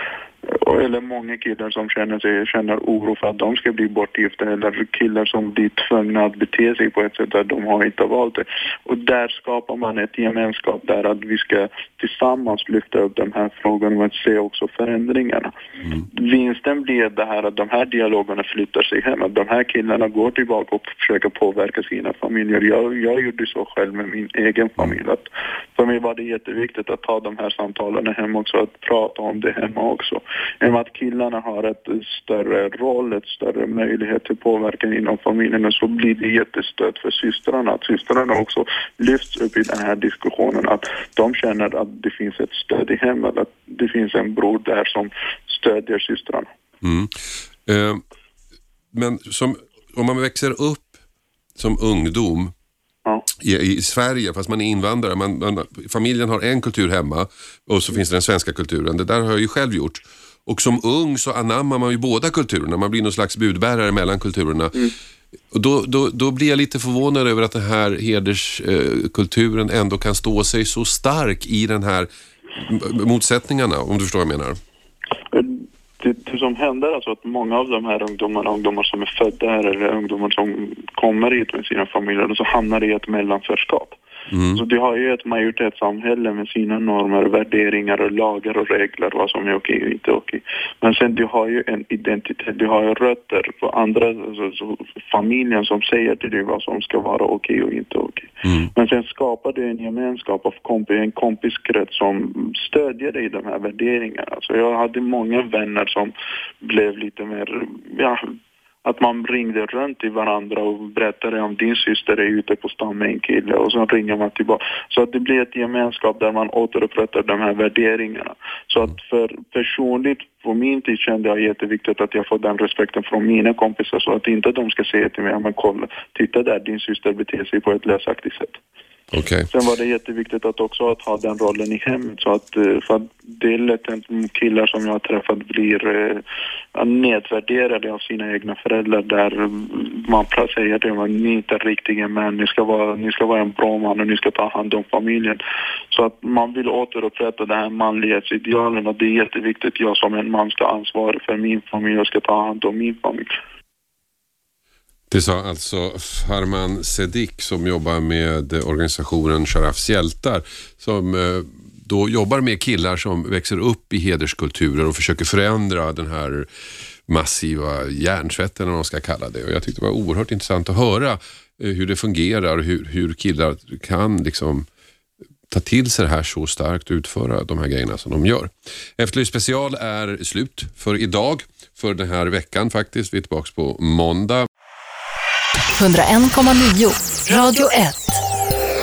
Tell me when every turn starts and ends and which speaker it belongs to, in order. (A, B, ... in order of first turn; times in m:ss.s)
0:00.4-0:15.5 A
0:16.0-0:46.5 A
0:46.8-0:48.0 B
0:48.9-0:51.0 B
0:51.6-0:52.5 B
0:53.4-1:04.9 B
1:05.5-1:14.6 B
1:15.3-1:24.0 A
1:24.3-1:24.6 B
1:24.5-1:48.2 A
1:48.8-2:08.6 A
2:09.1-2:09.5 B
2:09.5-2:16.2 A
2:16.7-2:25.4 A
2:25.9-2:33.3 A
2:35.1-2:46.5 B
2:47.1-2:54.7 B
2:55.5-3:04.5 B
3:05.8-3:08.2 C